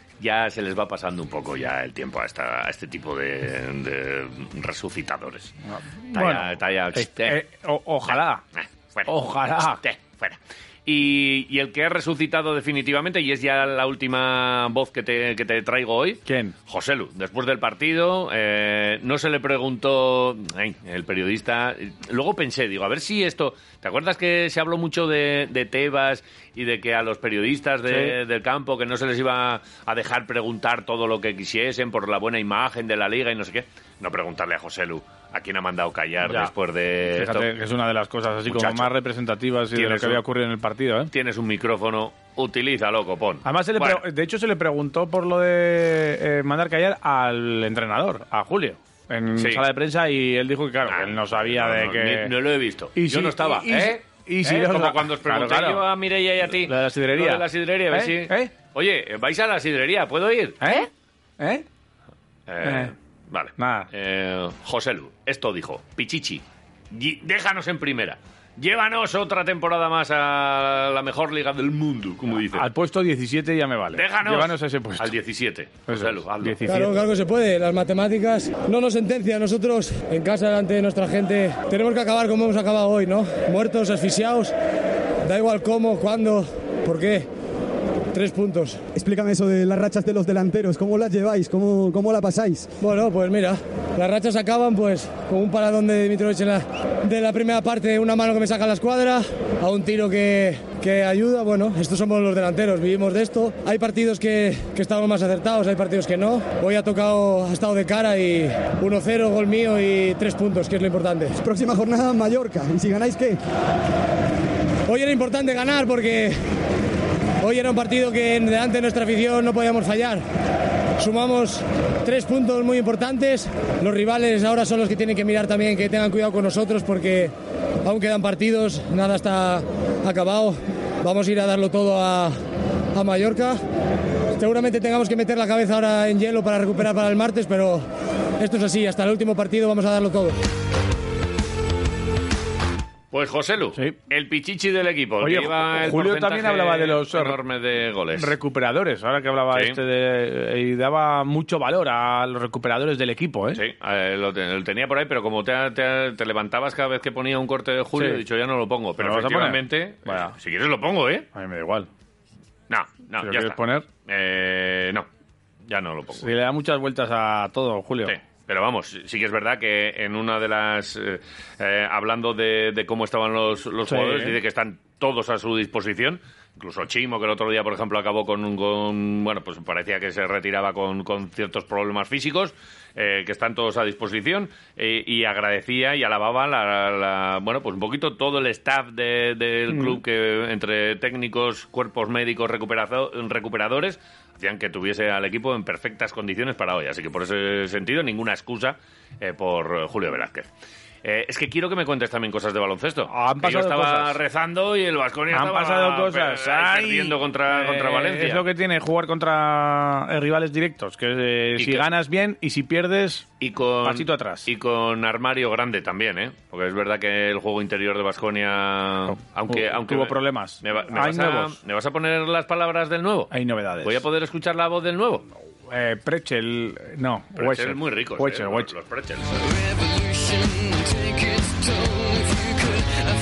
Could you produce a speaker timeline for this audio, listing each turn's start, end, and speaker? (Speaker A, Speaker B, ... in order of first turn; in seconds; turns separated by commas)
Speaker A: 0.2-5.5, Speaker B: 5.7-8.4, Speaker A: 6.1-7.4, Speaker A: 8.1-37.5, Speaker B: 9.1-9.8, Speaker B: 16.2-16.5, Speaker B: 27.9-28.1, Speaker B: 36.2-36.5, Speaker B: 37.1-41.1, Speaker A: 38.5-38.9, Speaker A: 39.7-40.2, Speaker A: 41.1-44.0, Speaker B: 43.4-52.3, Speaker A: 49.4-49.6, Speaker A: 50.9-60.8, Speaker B: 52.9-55.8, Speaker B: 56.5-58.5, Speaker B: 60.6-60.9, Speaker B: 61.4-61.6, Speaker A: 62.5-72.7, Speaker B: 62.6-62.9, Speaker B: 63.6-63.9, Speaker B: 72.5-75.1, Speaker A: 73.9-76.6, Speaker B: 75.9-77.0, Speaker C: 76.6-84.5, Speaker C: 85.2-87.3, Speaker C: 88.1-88.8, Speaker D: 88.9-92.7, Speaker C: 92.8-111.4, Speaker D: 111.4-113.4, Speaker C: 114.9-116.4, Speaker C: 117.4-120.2, Speaker C: 121.0-127.3, Speaker C: 127.8-132.4, Speaker C: 132.9-133.6, Speaker C: 134.4-137.9, Speaker C: 138.4-140.4, Speaker A: 143.1-148.3, Speaker B: 145.2-147.4, Speaker B: 148.1-153.6, Speaker A: 149.5-149.8, Speaker A: 153.5-161.3, Speaker B: 157.9-158.2, Speaker B: 159.0-160.3, Speaker B: 161.3-161.9, Speaker A: 162.7-165.1, Speaker B: 163.2-163.9, Speaker A: 165.7-166.3, Speaker B: 166.2-168.2, Speaker A: 168.1-200.5, Speaker B: 173.8-174.4, Speaker B: 189.7-190.0, Speaker A: 201.0-208.4, Speaker B: 203.1-204.2, Speaker B: 205.3-213.3, Speaker A: 211.6-211.8, Speaker A: 213.4-223.3, Speaker B: 213.8-214.5, Speaker B: 219.1-221.6, Speaker B: 223.3-224.0, Speaker A: 223.8-225.3, Speaker B: 225.7-228.7, Speaker A: 227.4-233.0